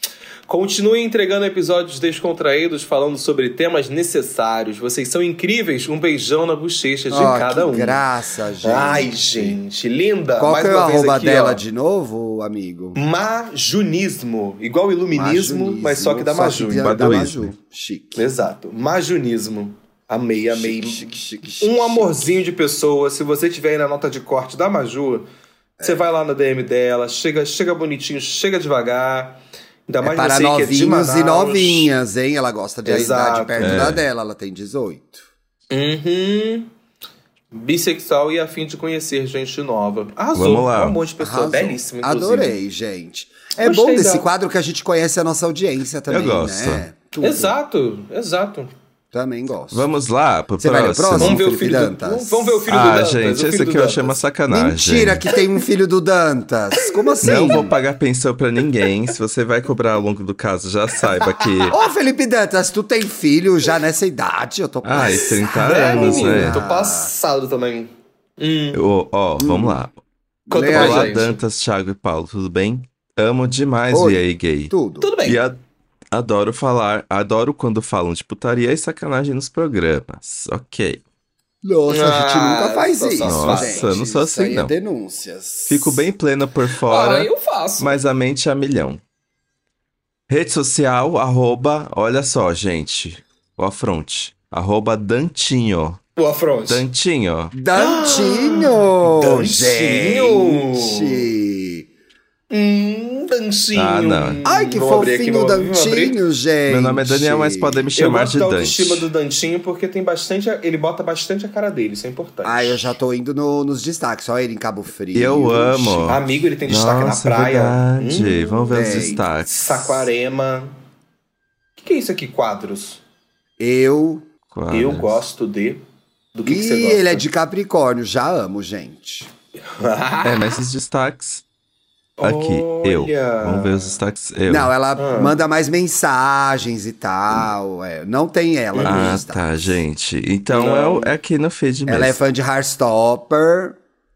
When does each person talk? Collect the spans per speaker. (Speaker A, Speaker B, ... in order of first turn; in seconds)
Speaker A: 0.5-8.0, 8.6-11.6, 12.9-17.2, 18.1-25.2, 25.8-31.9, 32.8-33.9, 35.7-36.7, 37.5-42.6, 43.5-44.2, 47.2-48.7, 51.2-54.2, 57.1-57.7, 61.2-61.7, 65.0-68.8, 70.5-71.4, 75.0-75.4, 81.9-83.9, 86.8-88.0, 96.2-96.8, 97.7-101.3, 102.5-106.2, 108.0-112.8, 116.1-118.7, 119.4-120.7, 121.8-123.0, 124.7-125.8, 126.3-127.2, 129.6-130.6, 132.2-134.0, 134.9-135.4, 138.7-139.2, 140.5-141.1
Speaker B: 7.1-9.6, 10.4-13.0, 15.1-18.2, 20.5-22.3, 30.0-35.3, 41.2-47.5, 49.1-49.9, 50.6-52.7, 54.5-57.7, 61.7-67.1, 69.4-69.8, 70.5-71.2, 73.9-75.1, 81.6-86.0, 97.5-101.9, 104.4-107.9, 112.4-116.2, 118.7-119.2, 123.6-124.3, 126.5-129.3, 134.5-139.8, 141.9-143.8
Speaker C: 16.7-17.5, 33.6-34.0, 40.3-41.0, 46.1-46.8, 49.7-51.4, 52.7-55.2, 57.2-61.8, 64.8-66.6, 68.7-70.0, 70.6-74.7, 75.2-75.6, 76.1-81.0, 83.2-84.7, 85.7-89.0, 90.3-96.0, 96.7-97.5, 103.7-104.4, 106.7-109.1, 115.1-120.1, 124.5-125.2, 130.2-131.4, 132.2-134.7, 138.8-142.2